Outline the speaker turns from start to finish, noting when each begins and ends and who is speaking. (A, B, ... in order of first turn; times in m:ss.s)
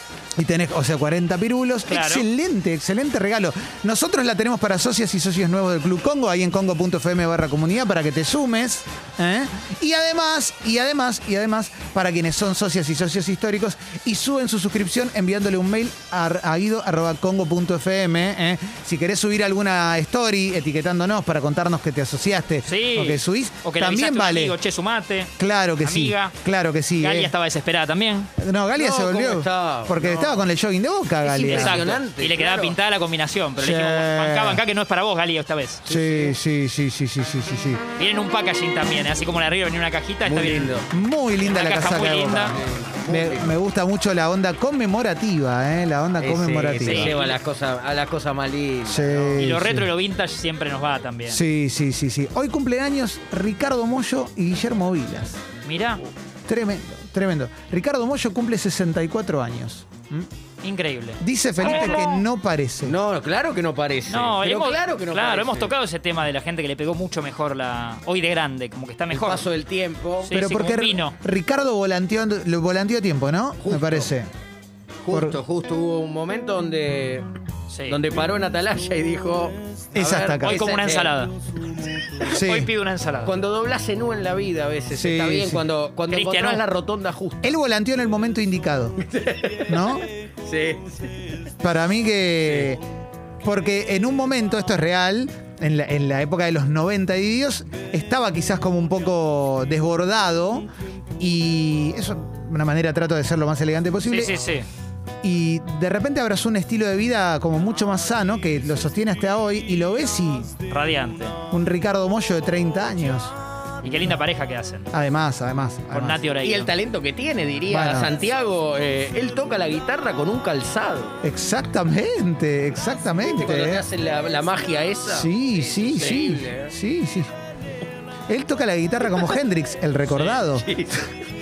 0:00.4-0:24.6 A
0:01.9-0:02.2 B
0:22.6-0:26.3 B
0:25.4-0:27.3 A
0:27.0-0:28.3 B
0:28.4-0:31.9 A
0:28.8-0:30.4 C
0:31.2-0:32.8 C
0:31.5-0:35.8 B
0:33.6-0:34.6 A
0:35.8-0:36.4 C
0:35.9-0:37.8 A
0:38.0-0:40.7 B
0:40.2-0:40.9 C
0:40.9-0:47.1 A
0:41.4-0:42.6 B
0:42.5-0:43.5 C
0:46.2-0:49.5 C
0:46.8-0:47.4 B
0:48.8-0:49.9 A
0:49.4-0:51.4 B
0:51.3-0:55.4 A
0:55.6-0:56.0 B
0:56.4-1:00.3 A
1:00.6-1:02.0 B
1:01.2-1:03.0 A
1:01.6-1:02.1 C
1:02.8-1:05.7 C
1:04.1-1:09.5 B
1:09.1-1:10.3 C
1:10.2-1:11.2 B
1:10.3-1:14.3 A
1:13.6-1:14.1 C
1:15.0-1:17.2 C
1:15.1-1:15.4 A
1:17.7-1:18.0 B
1:17.9-1:21.2 C
1:19.9-1:20.7 A
1:20.4-1:21.3 B
1:22.3-1:22.7 A
1:22.3-1:23.3 B
1:23.2-1:27.6 C
1:24.9-1:25.6 A
1:26.1-1:26.6 B
1:27.4-1:29.0 A
1:29.0-1:29.9 C
1:29.7-1:30.0 A
1:30.4-1:31.2 C
1:31.6-1:32.8 A
1:33.4-1:40.7 A
1:41.2-1:44.4 A
1:44.1-1:44.6 B
1:45.2-1:50.6 A
1:50.7-1:51.4 B
1:51.5-1:53.3 A
1:53.8-1:54.9 B
1:54.9-1:56.2 A
1:55.9-1:56.7 B
1:56.4-2:01.2 C
1:57.7-1:58.1 A
2:01.2-2:03.8 A
2:03.2-2:06.7 C
2:05.1-2:07.3 A
2:08.3-2:10.7 A
2:10.6-2:11.2 C